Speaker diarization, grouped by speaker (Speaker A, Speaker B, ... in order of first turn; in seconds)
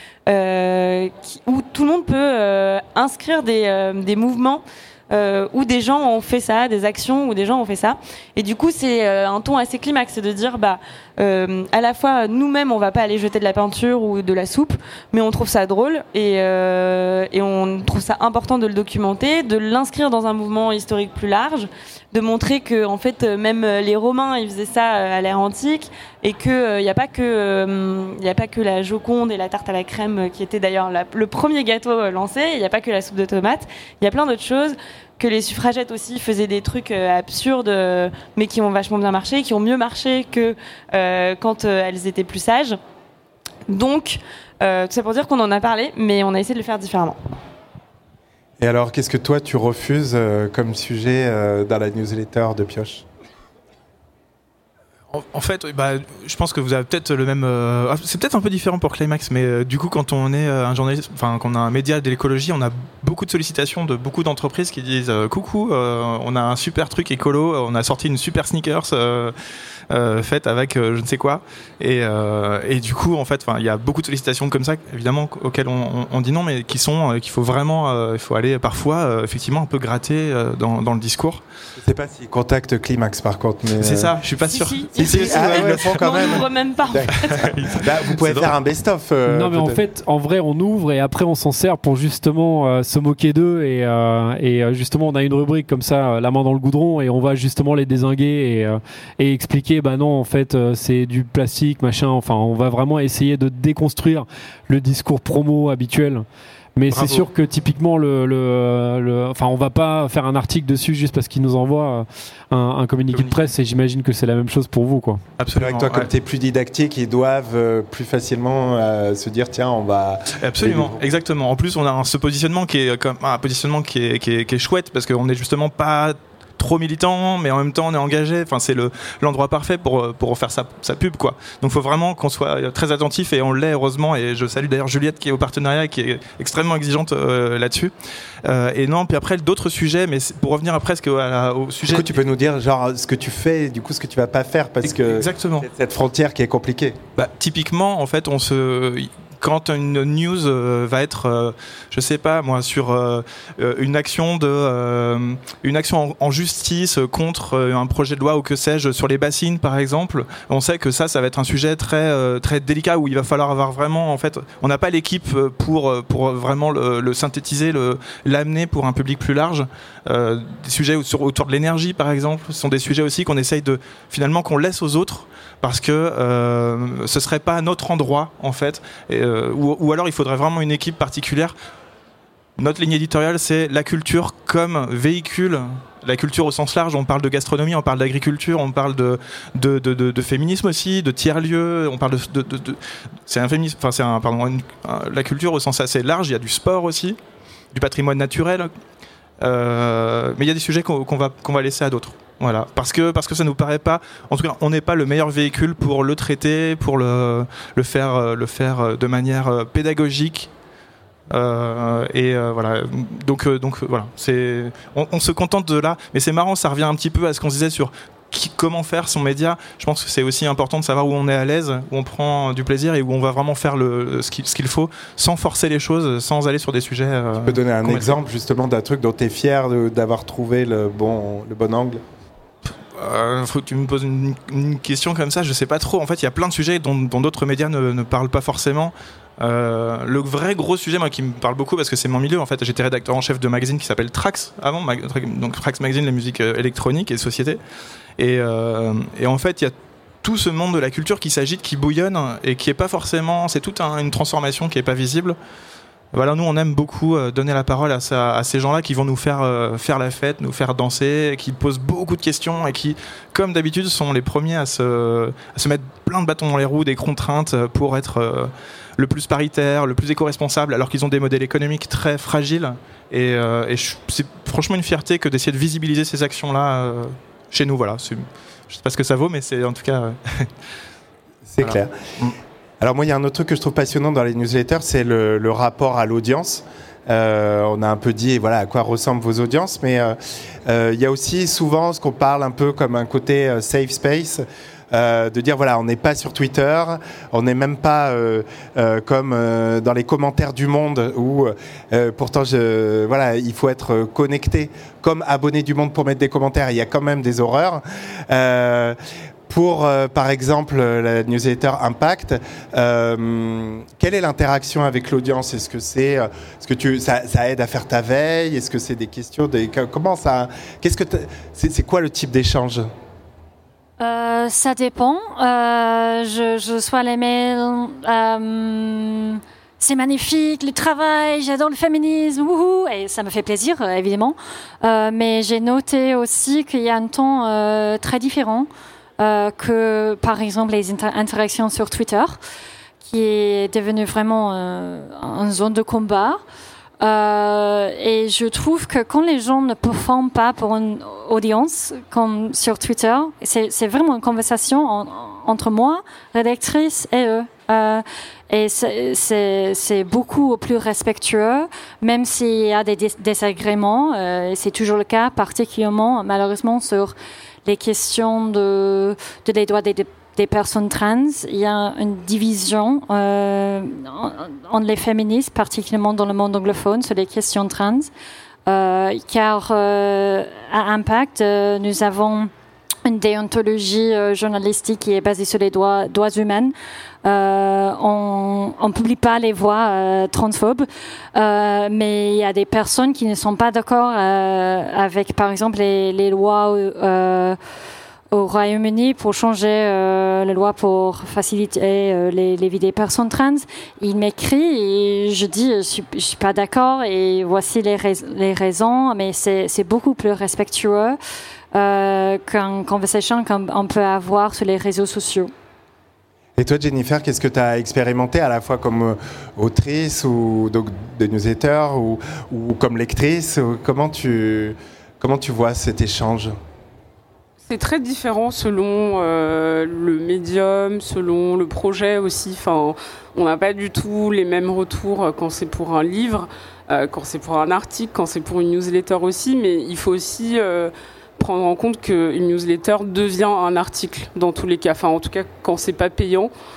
Speaker A: 0.3-42.8, 43.7-47.2, 84.4-87.5
Speaker B: 48.6-53.0, 81.8-84.1, 85.0-89.8, 115.5-121.0, 141.8-147.0, 227.4-232.0, 281.5-281.9, 282.8-308.9, 309.5-322.9, 416.6-426.5
Speaker C: 55.1-69.3, 69.9-81.4, 83.7-86.5, 87.1-88.5, 106.9-107.2, 113.1-113.5, 115.4-116.1, 120.3-137.9, 138.4-142.1, 144.8-145.7, 147.2-181.5, 182.6-197.2, 197.7-198.7, 199.4-210.5, 211.3-228.1, 232.9-247.6, 248.2-255.3, 256.1-280.5, 281.6-282.3
Speaker D: 89.3-106.2, 106.8-115.2
Speaker E: 324.0-338.7, 339.2-342.4, 343.0-346.4, 347.0-378.1, 378.6-382.5, 383.0-397.6, 398.3-411.2, 411.7-415.5
Speaker F: 427.6-446.5